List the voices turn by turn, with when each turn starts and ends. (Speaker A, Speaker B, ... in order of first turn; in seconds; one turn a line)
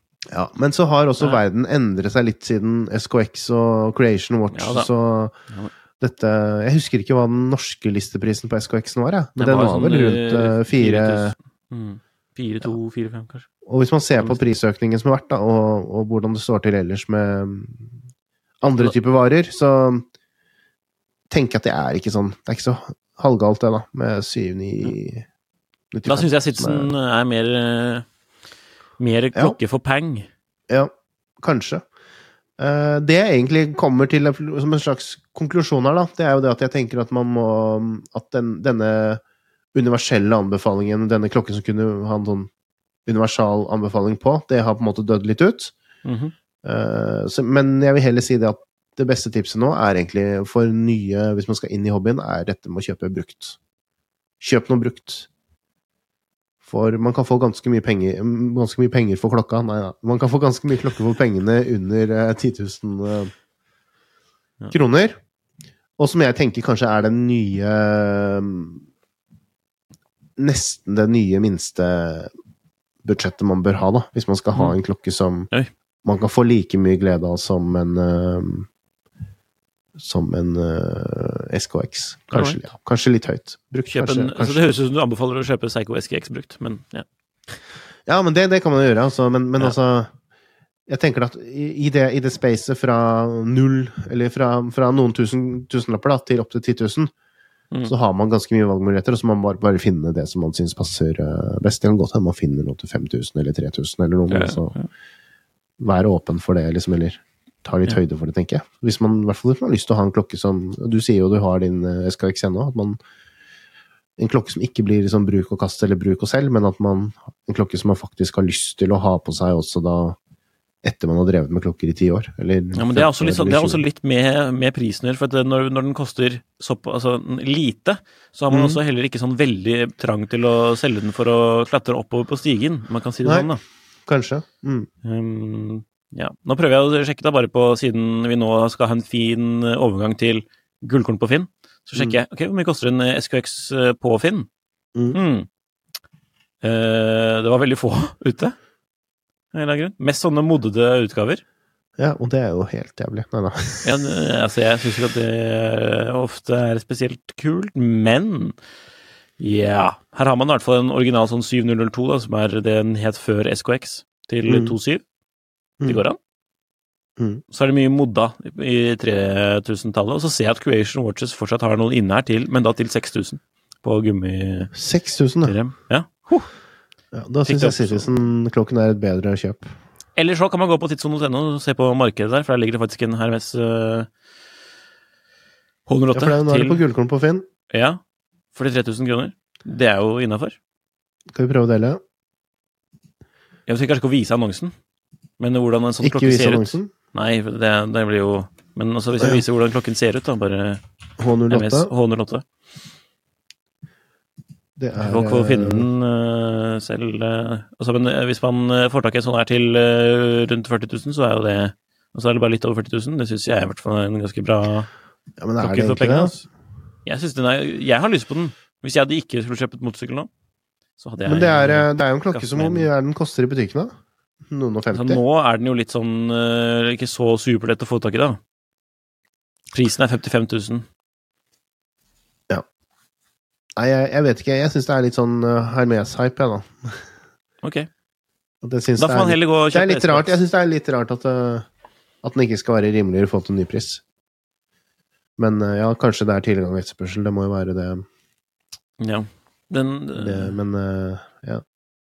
Speaker A: 0.3-5.3
Speaker B: 4.5-4.9
Speaker A: 6.0-11.3
Speaker B: 9.4-13.5
Speaker A: 13.6-17.9
Speaker A: 18.6-20.1
Speaker A: 21.3-25.2
Speaker A: 25.9-26.9
Speaker B: 26.1-28.1
Speaker B: 29.0-30.3
Speaker A: 30.7-31.8
Speaker A: 32.6-39.2
Speaker A: 39.7-42.5
Speaker A: 43.0-45.7
Speaker B: 46.0-46.3
Speaker A: 46.6-53.6
Speaker A: 54.4-55.3
Speaker A: 56.6-63.3
Speaker A: 64.7-65.2
Speaker A: 66.0-68.8
Speaker A: 70.4-72.3
Speaker A: 73.0-75.5
Speaker A: 76.0-78.7
Speaker A: 80.0-84.8
Speaker B: 82.3-82.7
Speaker B: 83.9-87.5
Speaker A: 88.0-90.1
Speaker A: 90.9-97.1
Speaker A: 97.8-104.7
Speaker B: 104.3-104.9
Speaker A: 105.8-113.0
Speaker A: 114.2-120.2
Speaker A: 120.8-123.8
Speaker B: 122.7-133.6
Speaker A: 128.5-128.8
Speaker A: 133.2-133.5
Speaker A: 134.1-134.9
Speaker B: 135.0-144.5
Speaker A: 144.9-145.2
Speaker B: 145.1-145.5
Speaker B: 146.6-148.5
Speaker B: 149.5-151.4
Speaker A: 152.0-154.1
Speaker B: 153.8-158.6
Speaker B: 159.4-165.0
Speaker A: 164.4-164.7
Speaker B: 165.8-166.2
Speaker A: 167.2-167.4
Speaker B: 167.5-174.7
Speaker A: 174.7-175.5
Speaker B: 175.4-176.5
Speaker A: 177.1-179.8
Speaker B: 177.4-178.1
Speaker B: 180.2-184.1
Speaker B: 185.8-186.8
Speaker A: 186.1-187.4
Speaker B: 187.7-188.0
Speaker B: 188.5-190.6
Speaker A: 191.3-192.0
Speaker B: 193.7-194.7
Speaker B: 195.4-200.8
Speaker A: 196.0-196.9
Speaker A: 201.2-201.9
Speaker B: 201.5-202.4
Speaker A: 204.8-205.9
Speaker B: 205.0-214.9
Speaker A: 215.4-216.3
Speaker B: 215.6-216.4
Speaker B: 217.0-220.3
Speaker B: 221.0-222.9
Speaker A: 221.2-225.2
Speaker B: 224.9-228.4
Speaker B: 229.7-230.8
Speaker A: 233.8-237.1
Speaker B: 237.6-237.9
Speaker A: 238.6-241.7
Speaker B: 239.0-240.4
Speaker A: 242.2-244.0
Speaker A: 245.4-248.1
Speaker B: 249.0-250.6
Speaker A: 250.2-251.6